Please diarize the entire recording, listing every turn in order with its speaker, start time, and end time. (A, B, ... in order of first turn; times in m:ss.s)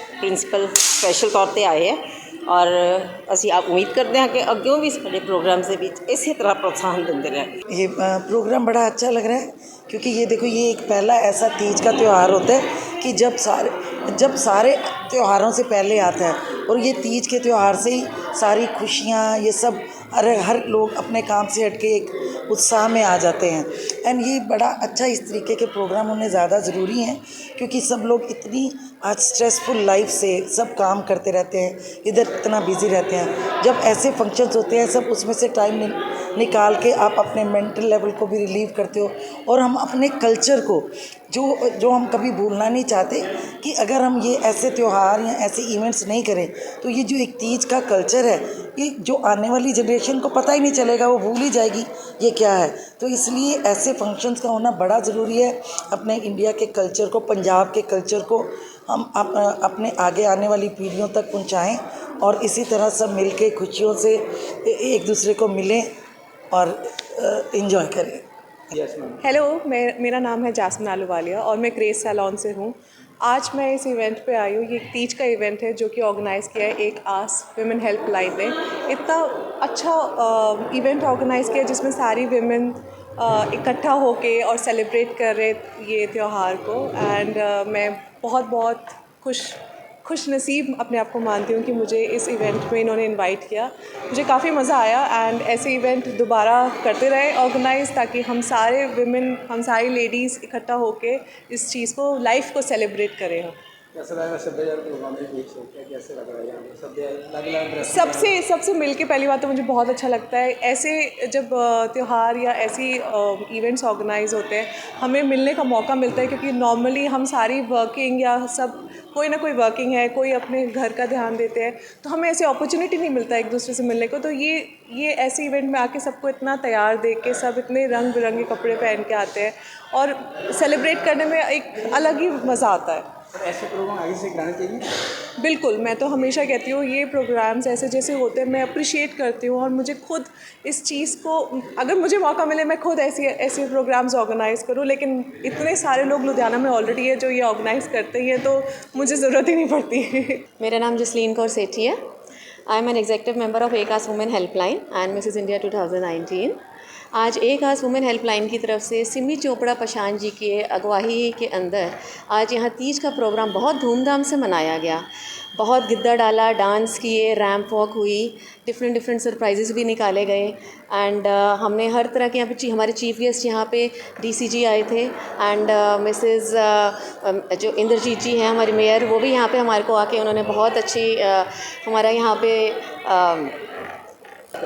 0:00.2-0:07.5 A
0:07.7-1:05.9 B
1:06.5-1:08.2 B
1:08.7-1:09.2 C
1:09.2-1:43.6 D
1:44.0-1:48.4 C
1:47.8-2:13.1 D
2:13.4-2:14.8 C
2:15.4-2:30.4 D
2:30.6-2:32.0 E
2:32.7-2:36.6 E
2:37.1-2:45.0 E
2:45.6-3:03.6 E